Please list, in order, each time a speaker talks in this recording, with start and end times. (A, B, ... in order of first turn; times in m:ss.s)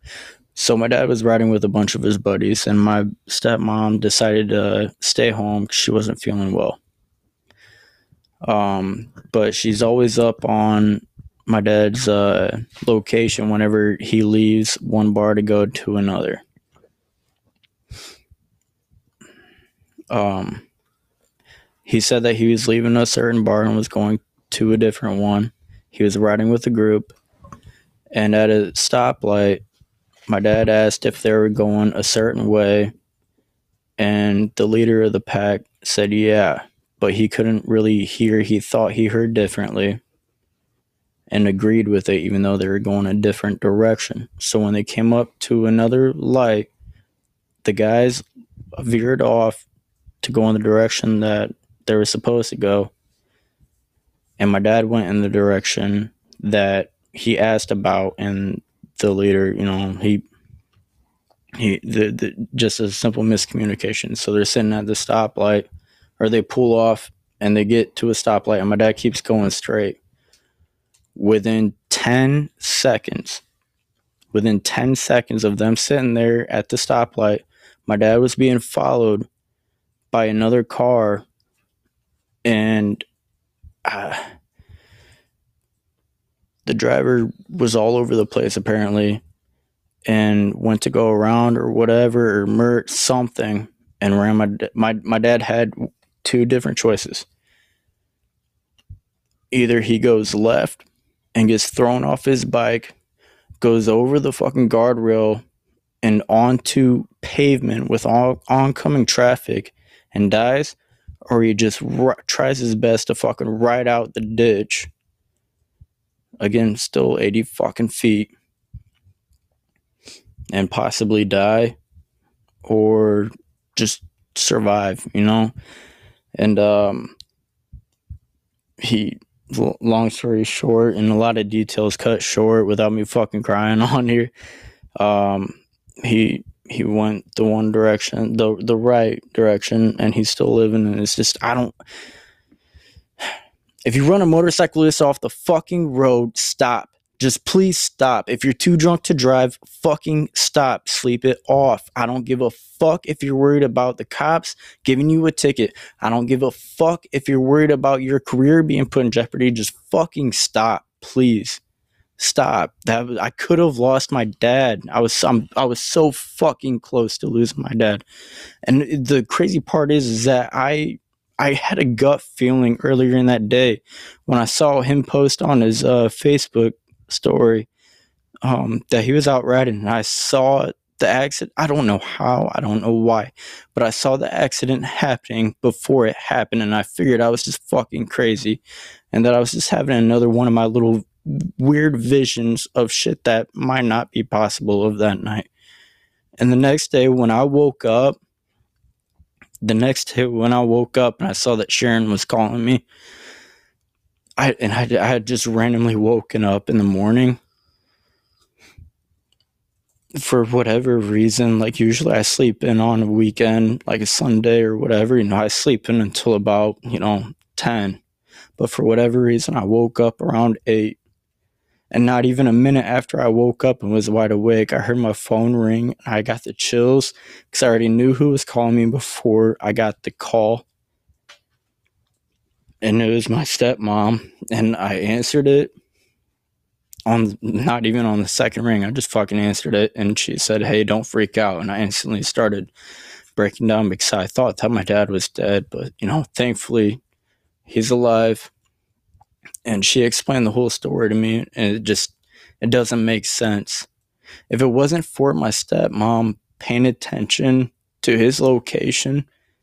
0:00.6-0:06.8 A
0:08.4-0:16.4 A
0:20.1-0:20.6 A
0:21.8-0:27.2 A
0:28.1-0:29.6 A
0:30.3-0:32.9 A
0:34.0-0:40.0 A
0:41.3-0:46.7 A
0:47.6-0:48.2 A
0:48.8-0:49.6 A
0:50.2-0:52.9 A
0:54.4-1:00.2 A
1:01.6-1:05.7 A
1:06.2-1:10.0 A
1:11.2-1:13.4 A
1:14.3-1:19.3 A
1:20.1-1:21.2 A
1:22.4-1:23.0 A
1:23.8-1:24.3 A
1:26.7-1:29.2 A
1:30.1-1:37.3 A
1:39.5-1:40.8 A
1:41.4-1:43.0 A
1:43.6-1:45.4 A
1:46.0-1:54.9 A
1:56.4-1:58.3 A
2:00.5-2:01.8 A
2:02.6-2:05.5 A
2:06.4-2:07.2 A
2:08.8-2:14.3 A
2:15.0-2:21.8 A
2:23.9-2:41.6 A
2:42.2-2:48.0 A
2:48.6-2:57.7 A
2:58.4-3:08.6 A
3:09.1-3:15.5 A
3:16.4-3:18.2 A
3:19.6-3:22.8 A
3:24.4-3:27.4 A
3:30.1-3:38.0 A
3:38.6-3:41.0 A
3:41.9-3:50.6 A
3:52.8-3:55.7 A
3:57.1-4:02.7 A
4:03.4-4:07.0 A
4:07.7-4:08.5 A
4:09.6-4:13.9 A
4:14.5-4:19.3 A